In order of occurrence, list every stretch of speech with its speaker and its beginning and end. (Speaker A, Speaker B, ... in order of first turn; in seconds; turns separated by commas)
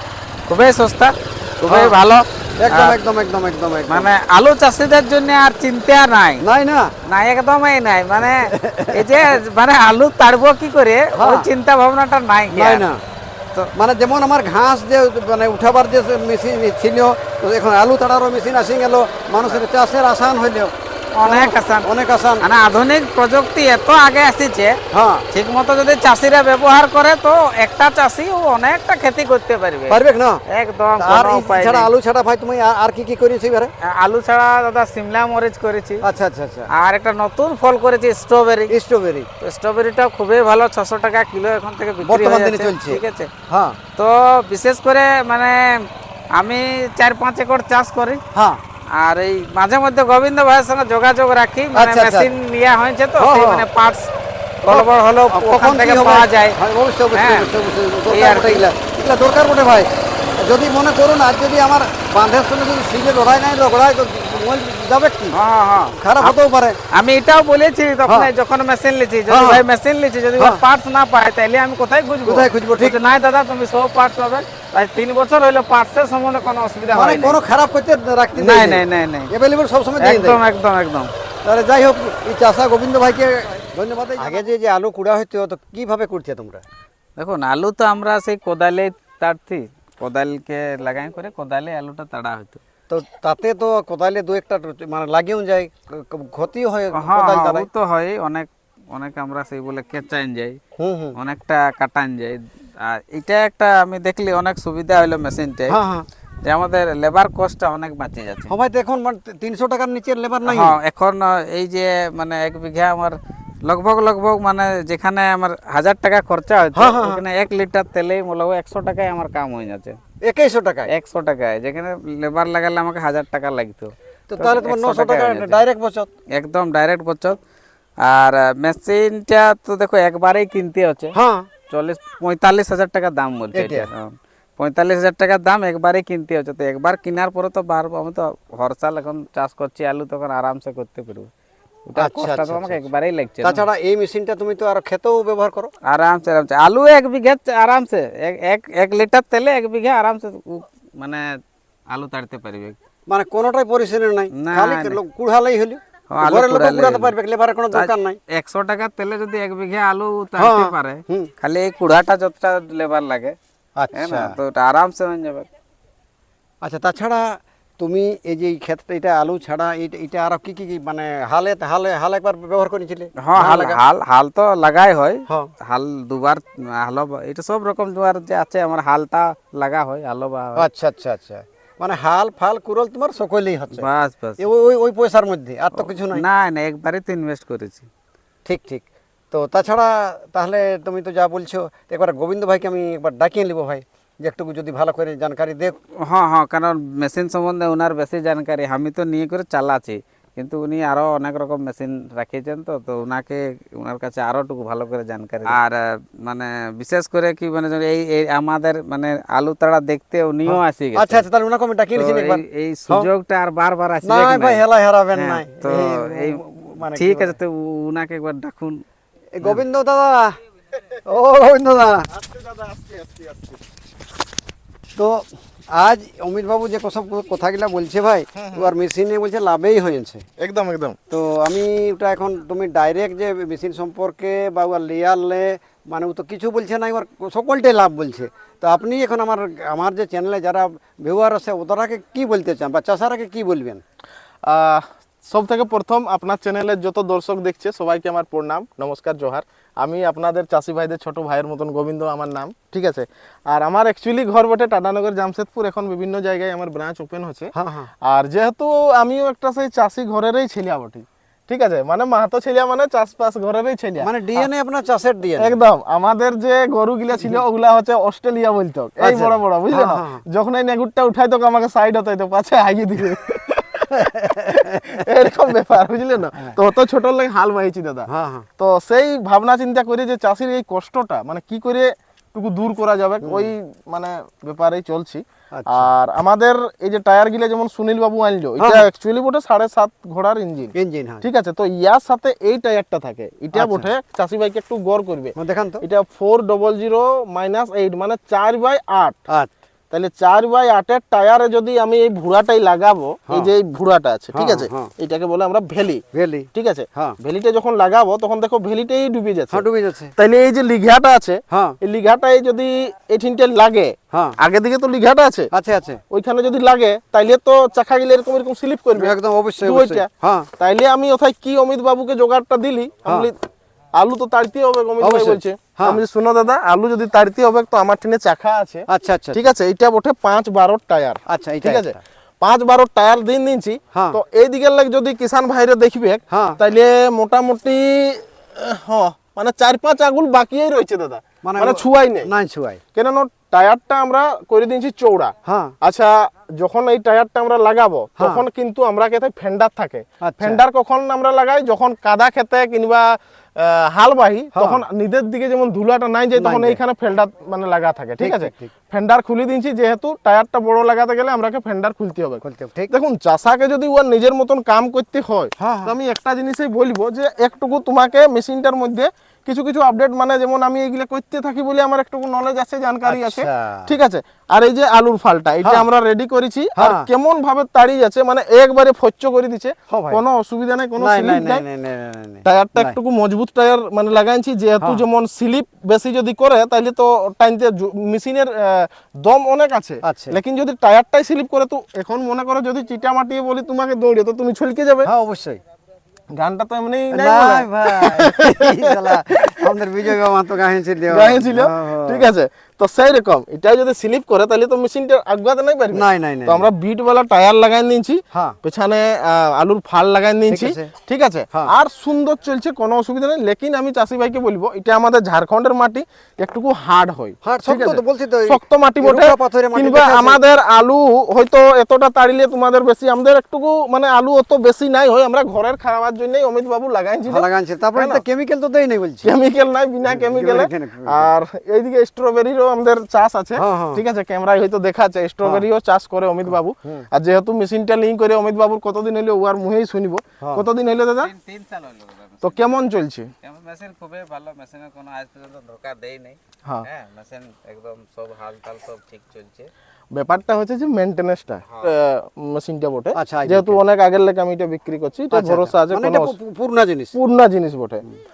Speaker A: 0.5-3.0, Speaker B: 1.7-1.9, Speaker B: 2.6-4.1, Speaker A: 3.9-6.4, Speaker B: 6.4-6.9, Speaker A: 7.1-12.9, Speaker B: 8.5-9.2, Speaker B: 11.2-11.5, Speaker B: 12.5-13.0, Speaker B: 13.8-22.4, Speaker A: 21.2-21.9, Speaker A: 22.4-24.8, Speaker B: 24.9-25.3, Speaker A: 25.3-31.9, Speaker B: 29.9-30.4, Speaker B: 31.0-33.7, Speaker A: 33.9-36.0, Speaker B: 36.0-36.7, Speaker A: 36.8-38.7, Speaker B: 38.7-39.3, Speaker A: 39.4-43.3, Speaker B: 42.0-43.8, Speaker A: 44.0-45.6, Speaker A: 46.4-48.2, Speaker B: 48.4-48.6, Speaker A: 49.0-54.1, Speaker B: 51.8-52.3, Speaker B: 53.2-53.7, Speaker A: 54.6-56.6, Speaker B: 54.6-65.4, Speaker A: 57.1-57.5, Speaker A: 58.1-58.6, Speaker A: 65.3-66.4, Speaker B: 66.0-66.8, Speaker A: 67.0-77.4, Speaker B: 69.3-69.6, Speaker B: 72.2-73.0, Speaker B: 76.9-80.4, Speaker A: 78.4-79.3, Speaker A: 80.0-81.1, Speaker B: 81.5-86.6, Speaker A: 87.2-92.6, Speaker B: 92.9-97.7, Speaker A: 96.9-100.6, Speaker B: 100.8-101.2, Speaker A: 101.2-105.8, Speaker B: 105.7-106.1, Speaker A: 106.5-108.5, Speaker B: 108.5-110.8, Speaker A: 110.4-120.0, Speaker B: 116.7-117.2, Speaker B: 120.2-120.9, Speaker A: 120.9-125.6, Speaker B: 124.3-126.1, Speaker A: 126.3-127.4, Speaker A: 128.1-131.1, Speaker B: 131.1-131.5, Speaker A: 131.7-141.3, Speaker B: 133.5-133.9, Speaker A: 141.9-143.7, Speaker B: 142.0-142.9, Speaker B: 143.4-145.7, Speaker A: 145.9-151.3, Speaker A: 151.9-152.8, Speaker B: 153.1-158.2, Speaker A: 154.3-155.0, Speaker A: 156.1-157.1, Speaker A: 157.7-163.4, Speaker B: 160.4-161.3, Speaker B: 163.8-164.3, Speaker A: 163.9-165.5, Speaker B: 166.6-167.3, Speaker B: 167.8-173.8, Speaker A: 173.2-180.7, Speaker B: 180.6-183.9, Speaker A: 183.8-184.4, Speaker B: 184.4-186.2, Speaker A: 185.7-187.9, Speaker B: 188.4-195.8, Speaker A: 196.1-211.2, Speaker B: 210.4-213.1, Speaker A: 212.0-214.6, Speaker B: 214.0-217.3, Speaker A: 215.2-218.8, Speaker B: 219.4-220.3, Speaker B: 221.1-222.1, Speaker C: 222.1-223.6, Speaker B: 225.0-230.2, Speaker C: 228.4-228.7, Speaker C: 230.4-231.0, Speaker B: 231.1-243.8, Speaker C: 244.4-257.5, Speaker B: 257.6-257.9, Speaker C: 258.0-264.5, Speaker B: 264.0-265.6, Speaker C: 265.4-274.1, Speaker B: 269.0-270.2, Speaker B: 274.0-275.0, Speaker C: 275.0-299.2, Speaker B: 278.1-278.5, Speaker B: 283.2-283.5, Speaker B: 285.5-285.9, Speaker B: 288.6-288.9, Speaker B: 290.8-291.3, Speaker B: 293.5-293.9, Speaker B: 295.4-295.8, Speaker C: 299.9-306.0, Speaker B: 304.3-304.9, Speaker B: 306.1-307.2, Speaker C: 306.5-309.6, Speaker B: 309.5-310.1, Speaker C: 310.2-315.5, Speaker B: 311.5-311.8, Speaker B: 314.1-314.4, Speaker B: 315.5-316.0, Speaker C: 316.1-323.4, Speaker B: 319.0-320.5, Speaker C: 324.0-342.3, Speaker B: 325.0-326.0, Speaker B: 328.9-329.5, Speaker B: 331.3-332.0, Speaker B: 333.9-334.2, Speaker B: 336.3-336.6, Speaker B: 341.4-342.8, Speaker C: 342.9-381.6, Speaker B: 345.5-345.7, Speaker B: 348.2-348.4, Speaker B: 350.2-350.6, Speaker B: 354.6-354.8, Speaker B: 356.4-356.8, Speaker B: 358.2-358.7, Speaker B: 362.4-362.9, Speaker B: 365.6-365.9, Speaker B: 373.1-373.9, Speaker B: 376.8-377.1, Speaker B: 379.9-380.2, Speaker B: 381.0-383.0, Speaker C: 382.4-395.1, Speaker B: 390.0-390.4, Speaker B: 395.1-395.6, Speaker C: 396.3-399.7, Speaker B: 397.1-402.3, Speaker C: 401.1-428.2, Speaker B: 405.9-406.7, Speaker B: 410.5-410.9, Speaker B: 417.4-420.4, Speaker B: 427.3-429.3, Speaker C: 429.2-441.3, Speaker B: 430.1-431.3, Speaker B: 433.6-434.0, Speaker B: 436.5-437.1, Speaker A: 441.2-442.8, Speaker C: 442.4-443.3, Speaker A: 443.4-449.7, Speaker C: 450.1-456.4, Speaker B: 453.1-453.8, Speaker B: 455.3-457.1, Speaker C: 457.1-458.0